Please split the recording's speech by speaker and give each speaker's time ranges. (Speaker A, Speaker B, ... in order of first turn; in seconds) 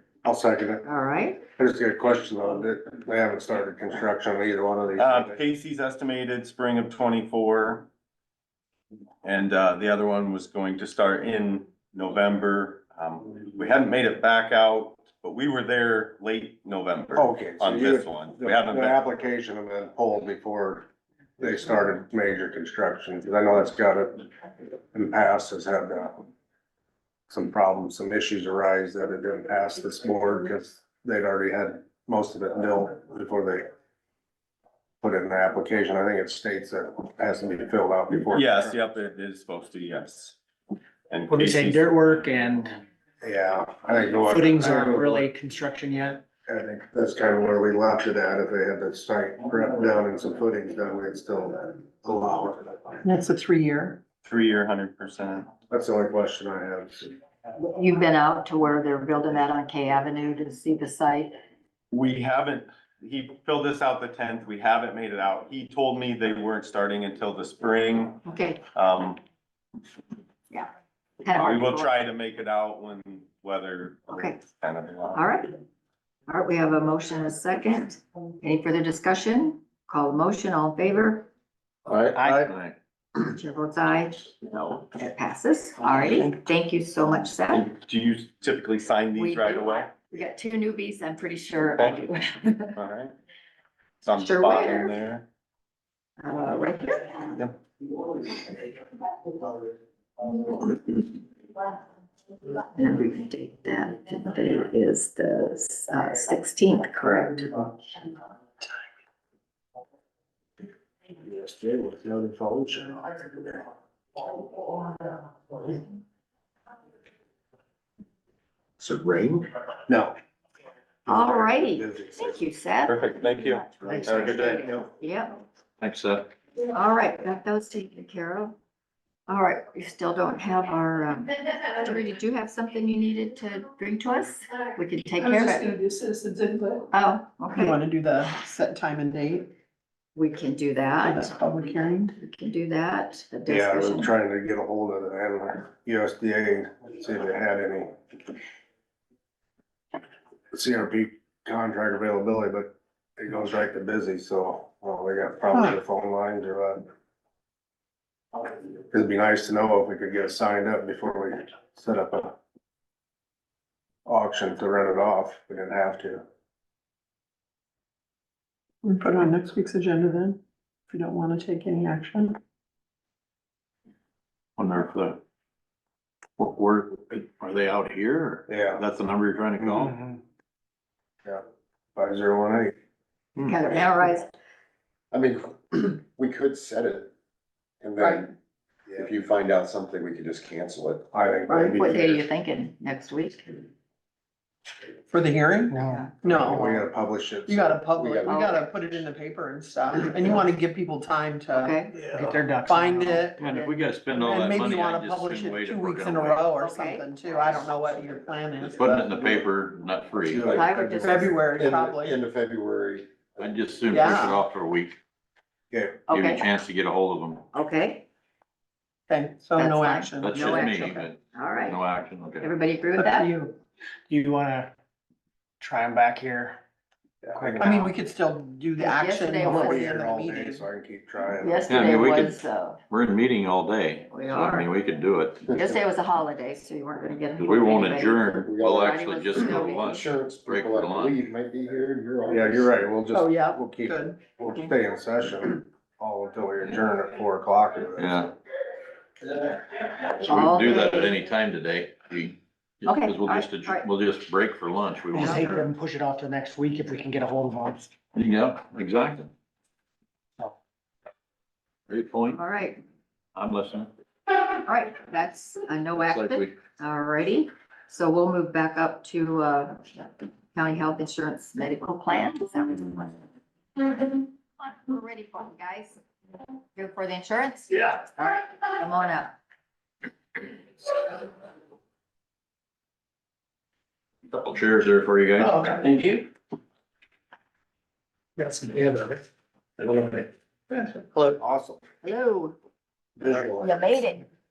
Speaker A: 0.2-0.8, 1.6-5.4, 17.1-20.9, 21.4-24.3, 24.9-26.2, 27.3-33.7, 35.0-38.8, 43.2-45.2, 46.5-53.0, 55.7-57.1, 111.2-113.7, 119.9-120.1, 121.1-122.3, 143.5-147.9, 150.5-156.8, 158.9-162.4, 164.1-166.2, 178.5-178.8, 179.6-180.2, 181.9-182.7, 188.9-189.1, 191.1-192.2, 196.3-197.8, 210.3-211.3, 215.7-216.0, 227.2-227.8, 229.4-232.1, 242.3-248.3, 291.4-291.8, 293.2-293.7
Speaker B: 0.8-1.4, 57.6-61.3, 68.2-68.6, 71.2-71.9, 74.1-74.4, 75.1-75.5, 76.3-81.3, 83.2-87.7, 89.1-92.8, 94.1-94.9, 96.2-97.4, 102.7-107.6, 121.1-125.4, 126.7-128.6, 129.3-135.8, 136.9-137.8, 140.2-141.4, 142.2-144.1, 183.4-184.3, 191.5-193.7, 195.8-196.1, 198.2-198.7, 201.5-201.9, 206.5-207.1, 210.5-211.2, 216.1-216.5, 217.5-218.1, 219.5-221.9, 222.4-223.3, 228.8-229.9, 231.4-232.8, 234.1-234.7, 235.5-240.1, 250.2-251.2, 252.8-253.9, 255.1-255.6, 262.3-262.8, 264.5-273.2, 273.8-276.0, 276.7-279.4, 292.0-292.6, 293.6-294.2
Speaker C: 5.0-7.9, 9.2-18.9, 38.3-40.4, 41.1-41.9, 54.2-55.5, 61.9-68.2, 68.7-69.2, 71.3-75.2, 87.5-89.9, 91.8-92.1, 92.7-93.1, 94.0-95.2, 122.8-124.8
Speaker D: 41.3-42.8, 44.2-46.2, 82.2-82.5, 195.7-196.6, 202.1-203.7, 224.1-224.7, 225.6-226.6, 227.3-227.9, 255.1-257.9, 288.4-289.2, 289.8-291.2
Speaker E: 53.0-54.0, 135.2-136.8, 137.5-139.5, 141.0-142.1, 168.8-172.4, 195.1-196.9, 197.5-203.4, 204.1-209.4, 211.0-212.2, 213.9-214.4, 219.1-220.9, 222.9-223.6, 227.6-230.7, 243.1-244.2, 285.5-285.8
Speaker F: 81.9-82.3, 118.8-119.5, 185.1-187.1, 187.8-188.3, 189.0-191.1, 197.9-198.4, 210.3-210.7, 211.5-213.5, 235.5-235.8, 238.4-242.9
Speaker G: 82.4-82.7, 125.8-126.3, 174.6-175.2, 176.4-179.9, 203.4-206.4, 208.6-210.5, 213.4-215.0, 216.1-217.4, 220.2-222.5, 231.7-235.4, 237.4-241.2, 248.0-248.3, 250.2-255.6, 258.1-259.3, 261.9-262.4, 263.3-263.9, 266.0-266.6, 284.3-285.6